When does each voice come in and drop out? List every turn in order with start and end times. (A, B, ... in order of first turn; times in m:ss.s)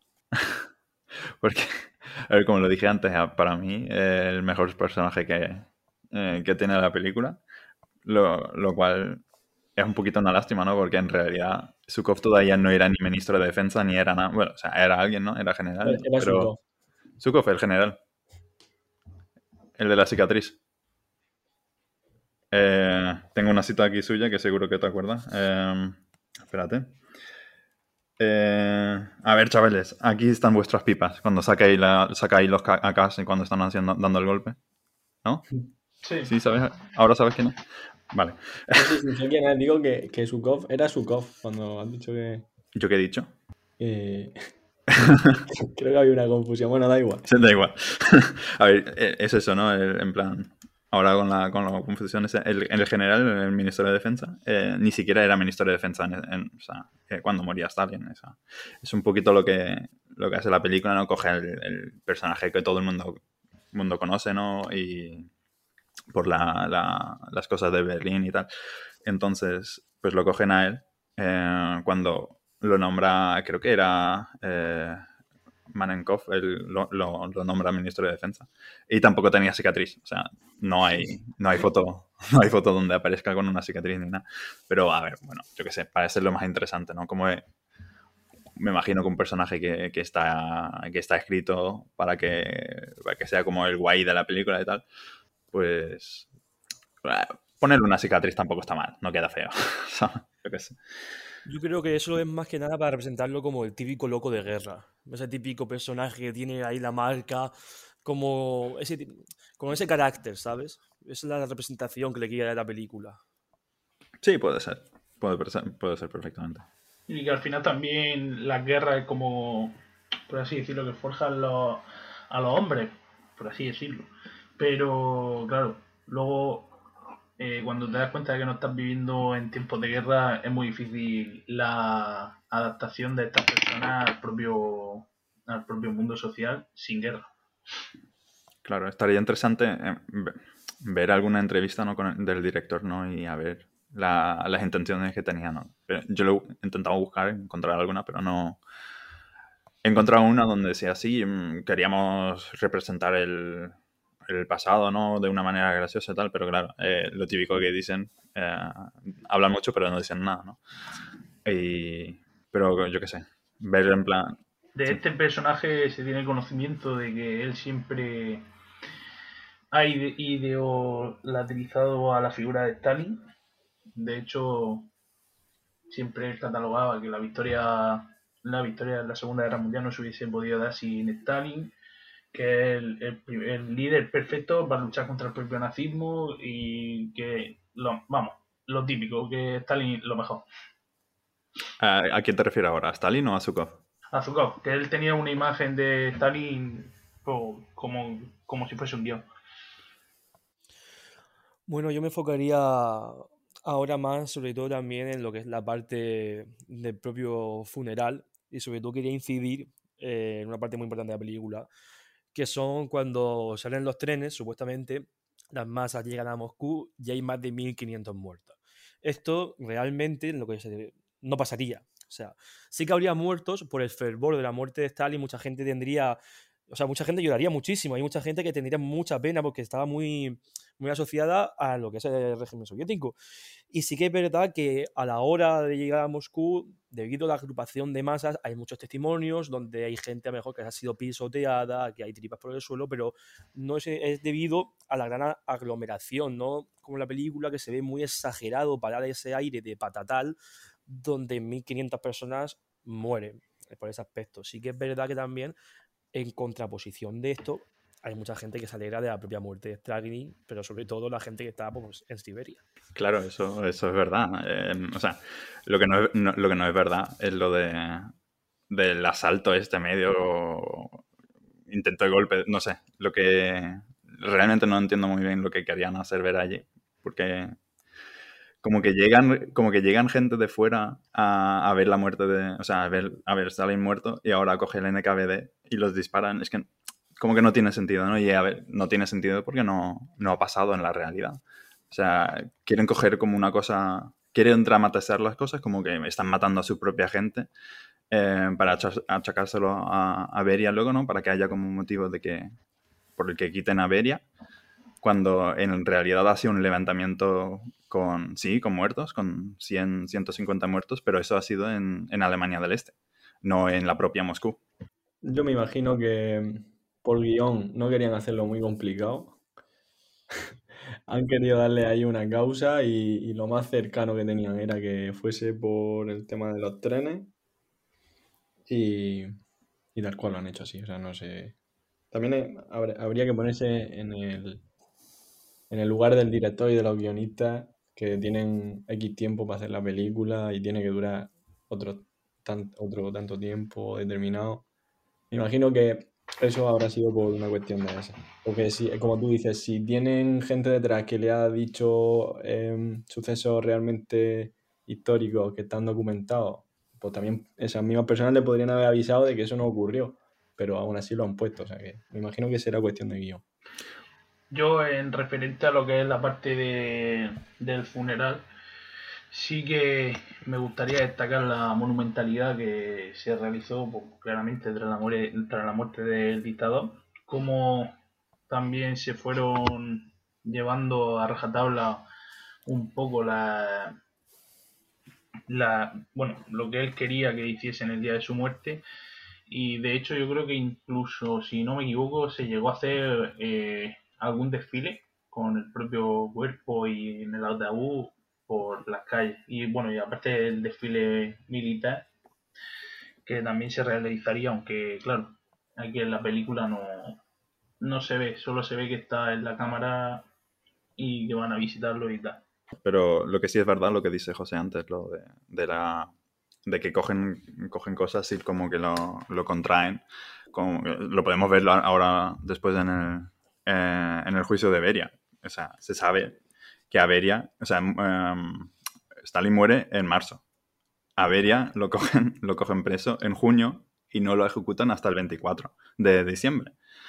0:01.4-0:07.4 A
0:08.0-0:09.2 A
0:09.8-0:16.5 A
0:15.8-0:16.6 B
0:17.2-0:18.0 A
0:19.8-0:20.6 A
0:22.5-0:27.0 A
0:28.2-0:34.6 A
0:35.2-0:35.5 A
0:36.0-0:36.3 C
0:36.2-0:37.6 A
0:38.1-0:38.8 A
0:38.7-0:42.5 B
0:42.7-0:43.3 A
0:43.8-0:44.3 B
0:45.0-0:45.4 A
0:45.6-0:47.2 B
0:47.3-1:03.2 A
1:03.7-1:05.3 A
1:06.1-1:08.5 A
1:09.0-1:15.0 A
1:15.7-1:27.4 A
1:28.6-1:34.8 A
1:35.5-1:36.3 A
1:37.0-1:40.8 A
1:41.4-1:47.5 D
1:48.0-1:53.2 D
1:54.2-1:56.6 A
1:57.1-2:06.8 C
2:07.4-2:17.3 C
2:18.6-2:28.6 A
2:29.8-2:33.8 A
2:34.3-2:40.6 A
2:41.4-2:44.4 A
2:44.7-2:48.4 C
2:49.7-2:53.2 C
2:54.0-2:54.9 C
2:55.9-3:01.7 C
3:02.3-3:10.4 C
3:11.8-3:13.8 A
3:14.1-3:19.3 C
3:21.7-3:31.7 D
3:32.3-3:46.2 D
3:46.7-3:53.2 D
3:53.7-4:10.4 D
4:10.9-4:15.6 D
4:16.1-4:22.6 D
4:22.9-4:28.1 A
4:28.7-4:31.0 A
4:31.7-4:37.6 A
4:38.6-4:51.4 A
4:51.9-4:57.5 A
4:58.1-5:02.5 A
5:03.2-5:04.2 A
5:05.0-5:14.6 A
5:15.2-5:19.4 B
5:21.1-5:27.3 B
5:28.7-5:29.3 B
5:29.9-5:31.5 B
5:32.1-5:34.6 B
5:35.7-5:44.6 B
5:45.3-6:03.4 B
6:04.5-6:08.4 C
6:09.3-6:17.9 C
6:18.5-6:22.0 C
6:22.6-6:24.0 C
6:25.5-6:28.8 C
6:29.5-6:42.1 C
6:43.2-6:47.2 C
6:47.8-6:50.3 C
6:51.0-6:52.4 C
6:52.8-6:56.1 A
6:56.6-7:06.4 A
7:06.9-7:10.4 A
7:11.2-7:16.8 A